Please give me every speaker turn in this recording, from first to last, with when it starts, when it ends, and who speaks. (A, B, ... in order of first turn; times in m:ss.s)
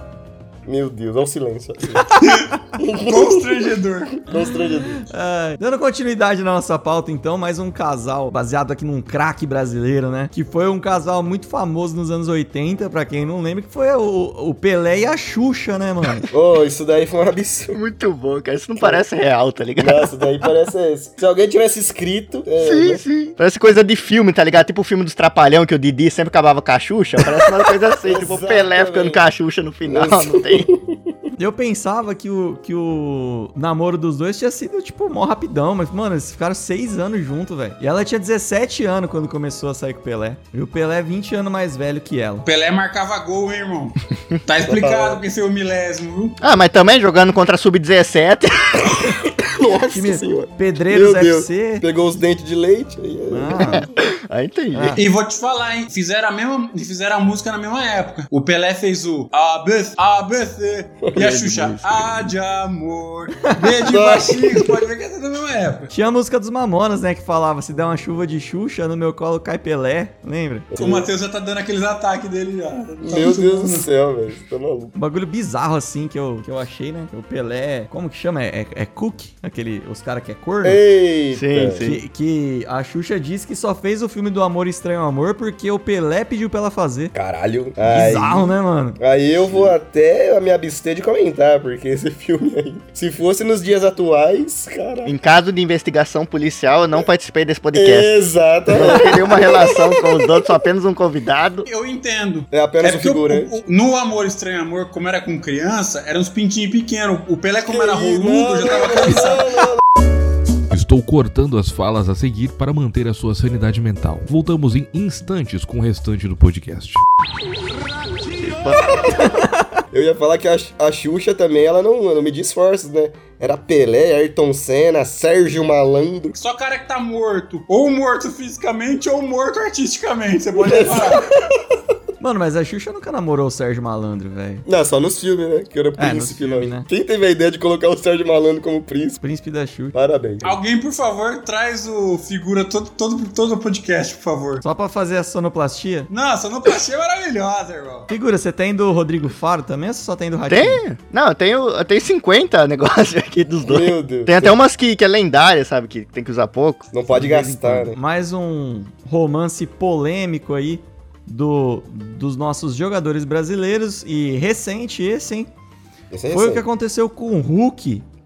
0:00.6-0:02.1 A
0:02.2-0:04.2 B
0:02.8-0:03.7 A
0:04.2-0:05.1 A
0:05.0-0:16.2 C
0:16.3-0:17.8 A
0:17.7-0:20.1 D
0:18.8-0:19.0 A
0:19.8-0:23.0 A
0:22.6-0:30.7 D
0:28.0-0:29.2 A
0:29.8-0:31.1 A
0:31.4-0:42.4 C
0:42.4-0:46.4 B
0:44.6-0:45.2 A
0:46.4-0:49.0 D
0:49.0-0:53.9 A
0:49.9-0:51.8 C
0:53.3-0:53.8 C
0:53.7-0:55.0 D
0:54.7-0:55.0 C
0:55.0-1:05.9 B
1:01.2-1:02.2 D
1:03.8-1:04.7 A
1:05.9-1:10.7 C
1:10.7-1:11.1 A
1:10.8-1:13.8 B
1:13.0-1:14.9 A
1:14.9-1:20.8 C
1:20.6-1:21.9 A
1:21.3-1:22.0 D
1:21.8-1:27.1 C
1:27.1-1:35.1 A
1:27.8-1:29.0 C
1:35.0-1:38.1 D
1:37.7-1:40.5 A
1:38.7-1:41.7 D
1:41.6-1:49.5 B
1:42.5-1:43.6 A
1:47.7-1:49.8 A
1:50.7-1:57.0 E
1:58.7-1:59.2 A
1:59.0-1:59.7 C
1:59.9-2:06.3 A
2:06.3-2:11.2 B
2:10.5-2:11.6 A
2:12.2-2:14.6 C
2:14.6-2:19.2 A
2:16.0-2:16.9 C
2:19.2-2:20.0 C
2:19.9-2:20.6 A
2:20.4-2:24.6 B
2:24.6-2:26.1 C
2:26.1-2:28.1 B
2:28.1-2:30.8 C
2:30.5-2:36.9 D
2:33.6-2:34.6 A
2:36.9-2:38.0 A
2:37.1-2:45.5 C
2:46.1-2:46.6 A
2:46.3-2:48.0 C